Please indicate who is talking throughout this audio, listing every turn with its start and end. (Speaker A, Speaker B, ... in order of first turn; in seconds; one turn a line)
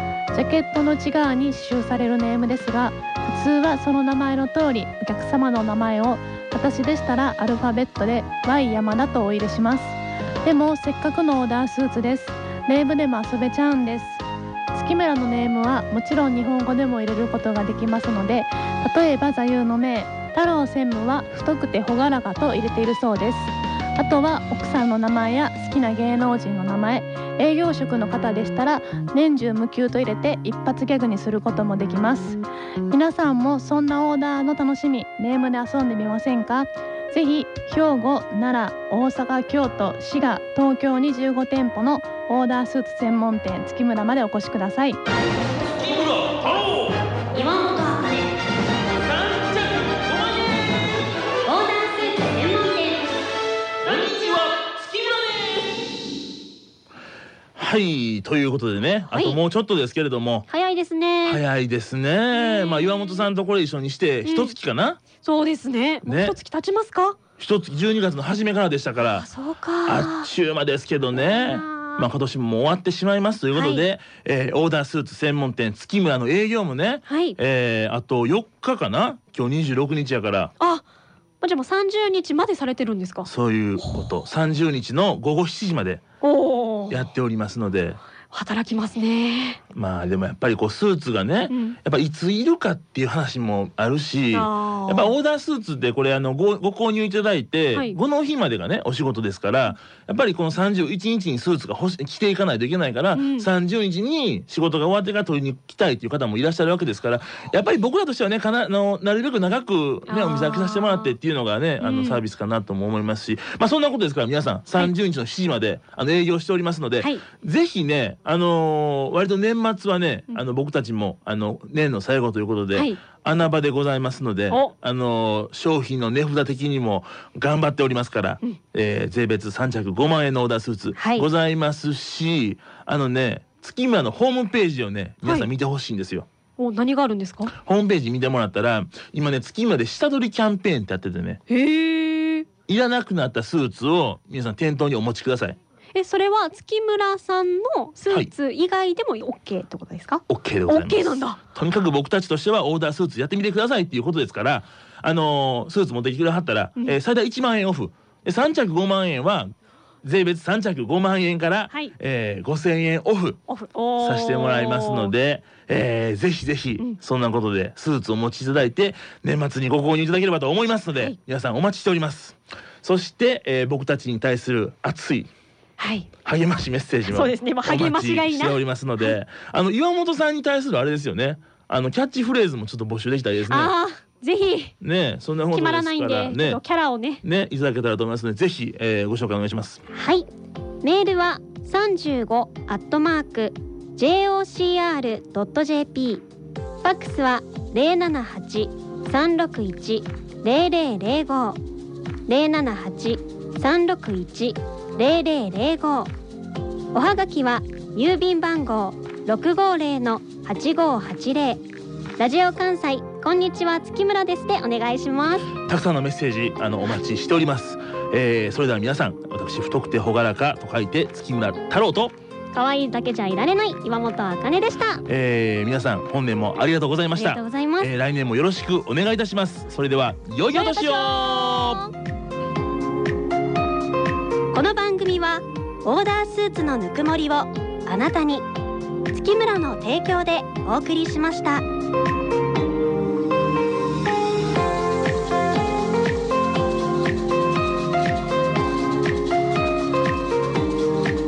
Speaker A: 0.3-32.4
Speaker A: 32.9-45.0
Speaker B: 45.6-47.0
Speaker C: 47.3-48.3
Speaker B: 49.0-51.1
Speaker C: 51.4-52.7
Speaker D: 52.7-53.0
Speaker B: 53.8-55.7
Speaker B: 57.5-60.5
Speaker D: 59.1-59.4
Speaker D: 60.5-61.4
Speaker B: 61.2-65.0
Speaker D: 62.3-63.3
Speaker D: 64.2-64.5
Speaker D: 65.2-67.2
Speaker B: 66.0-66.4
Speaker B: 67.4-69.2
Speaker D: 69.0-70.3
Speaker B: 69.9-80.5
Speaker D: 71.1-72.1
Speaker D: 73.5-73.8
Speaker D: 77.1-77.4
Speaker D: 80.6-80.8
Speaker D: 81.4-84.0
Speaker B: 83.2-86.0
Speaker D: 86.2-87.0
Speaker B: 86.9-88.0
Speaker D: 88.3-89.6
Speaker B: 89.7-136.3
Speaker D: 91.5-91.8
Speaker D: 94.3-95.1
Speaker D: 103.1-103.5
Speaker D: 110.1-111.2
Speaker D: 111.8-112.2
Speaker D: 122.7-123.0
Speaker D: 130.9-131.3
Speaker D: 136.6-137.5
Speaker B: 137.6-141.4
Speaker D: 141.5-142.5
Speaker B: 142.7-145.6
Speaker D: 145.9-151.4
Speaker B: 150.3-159.5
Speaker B: 160.0-163.4
Speaker D: 163.5-165.1
Speaker B: 164.0-175.3
Speaker D: 175.8-176.1
Speaker B: 176.2-183.7
Speaker D: 177.1-179.2
Speaker D: 183.5-184.7
Speaker B: 184.8-186.6
Speaker D: 185.5-187.2
Speaker B: 187.2-189.8
Speaker C: 190.0-190.3
Speaker C: 190.8-196.2
Speaker D: 191.4-192.6
Speaker C: 196.8-201.6
Speaker C: 202.3-206.1
Speaker C: 206.9-211.6
Speaker C: 212.2-215.3
Speaker B: 215.5-222.2
Speaker D: 222.5-225.0
Speaker C: 222.6-224.2
Speaker B: 225.1-231.8
Speaker C: 227.2-227.4
Speaker D: 227.4-227.8
Speaker D: 230.5-231.7
Speaker C: 234.5-235.2
Speaker D: 234.8-235.4
Speaker C: 235.8-238.2
Speaker D: 236.1-238.4
Speaker C: 239.1-241.6
Speaker D: 239.2-241.2